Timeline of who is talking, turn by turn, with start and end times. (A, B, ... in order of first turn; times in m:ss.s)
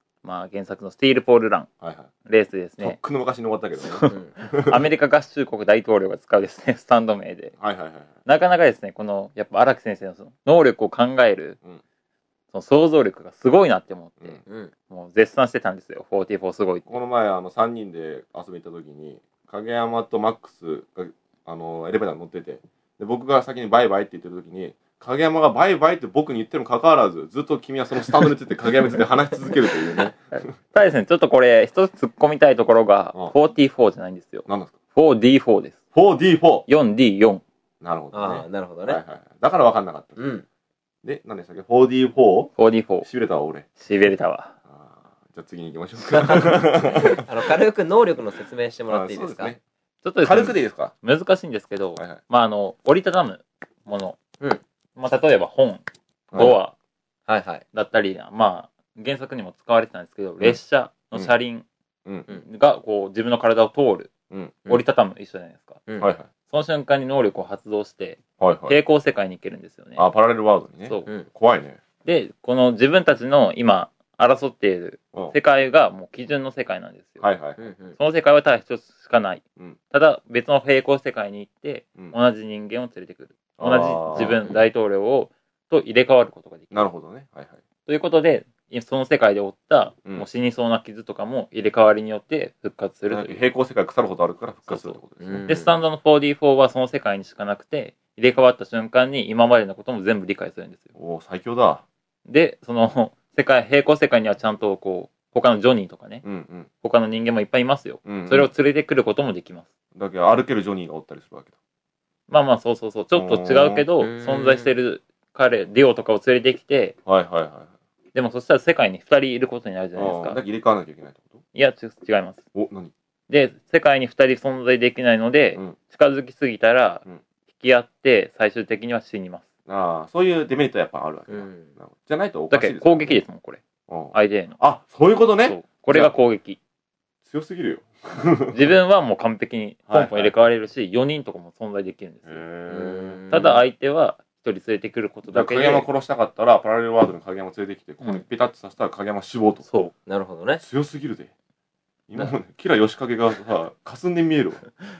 0:00.2-0:01.7 A
0:01.8-0:02.1 B
0:02.2-0:03.0 A
0:02.8-0:04.8 B
0:03.8-0:07.5 A
0:07.6-0:08.1 B
0:08.2-0:11.6 A
0:12.5-0:17.0 A
0:14.4-0:14.7 C
0:16.9-0:30.2 B
0:30.3-0:35.8 A
0:34.5-0:34.8 B
0:35.9-0:36.7 B
0:36.7-0:37.4 A
0:37.8-0:40.2 B
0:38.1-0:39.0 C
0:40.2-0:40.4 C
0:41.0-0:43.7 B
0:42.6-0:43.1 A
0:43.8-0:44.5 A
0:44.7-0:47.2 B
0:47.0-0:49.5 C
0:48.9-0:49.6 B
0:50.0-0:54.2 A
0:50.2-0:50.9 B
0:55.0-0:56.7 A
0:56.3-0:56.6 B
0:57.3-0:57.6 C
0:57.7-1:01.6 A
1:02.3-1:04.1 A
1:04.3-1:04.6 B
1:04.7-1:05.8 A
1:06.0-1:06.3 B
1:06.5-1:10.1 A
1:08.4-1:08.8 B
1:10.0-1:11.8 B
1:12.0-1:17.3 A
1:17.2-1:17.7 B
1:17.6-1:18.0 C
1:17.9-1:26.9 A
1:23.6-1:24.6 B
1:24.2-1:24.6 C
1:26.7-1:27.6 B
1:27.9-1:33.4 A
1:33.1-1:35.5 B
1:34.7-1:40.9 A
1:35.2-1:35.7 C
1:40.9-1:41.8 B
1:42.2-1:46.2 A
1:46.2-1:46.7 B
1:46.8-1:49.7 A
1:48.0-1:48.5 B
1:49.9-1:51.5 B
1:52.3-1:57.0 A
1:53.1-1:53.8 B
1:54.0-1:54.7 C
1:57.0-1:57.7 B
1:58.1-2:00.4 A
2:00.0-2:01.4 B
2:01.5-2:02.4 A
2:02.5-2:02.9 B
2:03.3-2:09.5 A
2:09.6-2:13.2 B
2:11.3-2:11.7 C
2:12.5-2:13.6 A
2:13.9-2:16.2 B
2:14.1-2:14.6 A
2:15.4-2:16.6 A
2:17.2-2:18.7 B
2:18.5-2:22.4 A
2:19.9-2:20.3 B
2:22.3-2:23.2 B
2:22.7-2:23.6 C
2:23.3-2:25.9 A
2:25.3-2:29.6 B
2:29.6-2:29.9 A
2:30.0-2:30.6 C
2:30.6-2:31.3 B
2:32.1-2:34.6 B